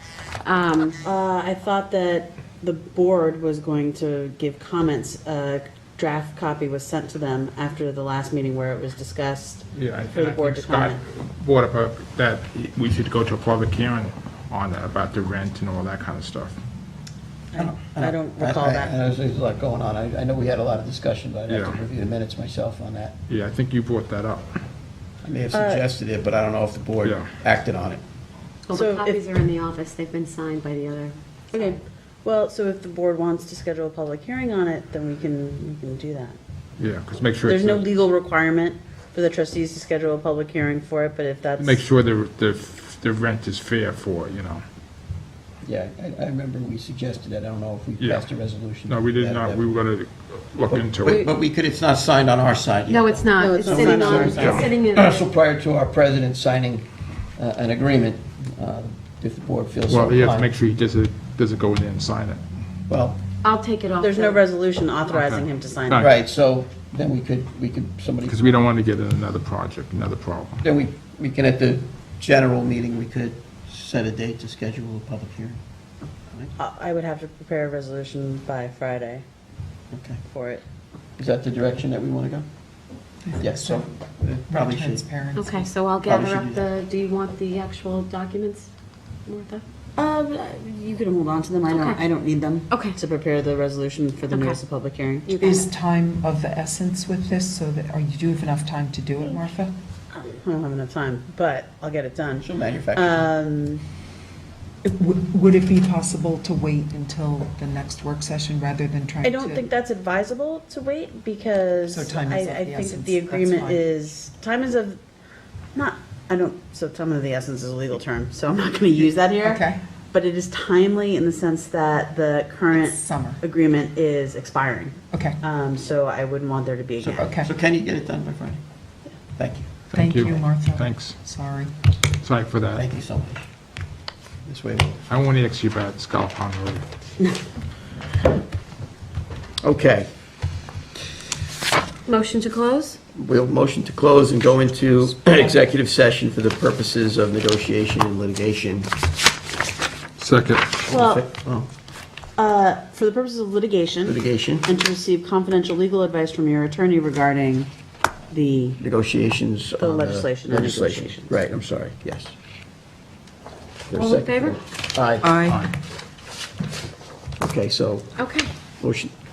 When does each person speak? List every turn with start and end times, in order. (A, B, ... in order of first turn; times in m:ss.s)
0:00.4-0:01.0 A
0:01.0-0:11.0 B
0:09.7-0:16.6 C
0:17.5-0:19.0 B
0:17.6-0:23.2 D
0:21.5-0:21.9 C
0:23.3-0:24.6 C
0:25.2-0:28.0 D
0:25.5-0:25.8 B
0:27.0-0:27.4 C
0:28.7-0:31.8 A
0:28.7-0:29.2 B
0:31.5-0:36.4 B
0:36.8-0:38.0 C
0:37.4-0:41.8 B
0:41.6-0:44.6 C
0:45.6-0:49.7 D
0:48.0-0:48.3 C
0:48.9-0:51.3 C
0:50.7-1:00.5 D
0:52.9-0:55.3 A
0:53.4-0:54.8 B
0:54.3-0:54.7 C
0:59.9-1:02.4 C
1:02.9-1:03.2 D
1:03.4-1:04.4 A
1:04.0-1:06.1 B
1:05.1-1:06.1 C
1:06.0-1:08.4 D
1:08.3-1:10.6 C
1:10.6-1:15.6 D
1:16.6-1:19.2 B
1:19.9-1:20.2 D
1:20.3-1:20.6 B
1:21.2-1:22.4 D
1:23.2-1:23.9 E
1:23.4-1:25.0 D
1:24.5-1:25.7 E
1:25.3-1:28.7 A
1:26.0-1:26.7 D
1:29.2-1:29.6 A
1:30.0-1:35.5 B
1:31.7-1:32.0 A
1:32.7-1:33.0 A
1:34.3-1:34.6 A
1:35.2-1:35.7 A
1:35.4-1:39.7 E
1:40.1-1:43.8 B
1:42.4-1:43.3 D
1:44.8-1:49.6 E
1:49.2-1:55.0 B
1:51.8-1:53.9 E
1:55.7-2:07.3 B
1:59.4-1:59.8 E
2:02.7-2:03.4 E
2:05.1-2:05.4 E
2:07.0-2:08.6 D
2:07.2-2:07.5 E
2:09.4-2:09.8 D
2:09.9-2:11.1 C
2:09.9-2:11.7 E
2:12.1-2:12.9 C
2:12.7-2:13.4 D
2:14.4-2:15.0 D
2:15.1-2:16.8 C
2:19.6-2:20.1 D
2:22.0-2:23.0 A
2:23.2-2:28.9 D
2:30.2-2:30.8 C
2:30.9-2:31.7 D
2:30.9-2:31.3 B
2:32.4-2:37.7 B
2:34.0-2:34.7 D
2:38.3-2:38.8 B
2:38.8-2:42.3 D
2:39.8-2:41.3 B
2:43.9-2:44.6 A
2:43.9-2:45.3 D
2:45.2-2:45.7 E
2:47.4-2:48.1 D
2:48.2-2:48.5 A
2:48.8-2:49.1 D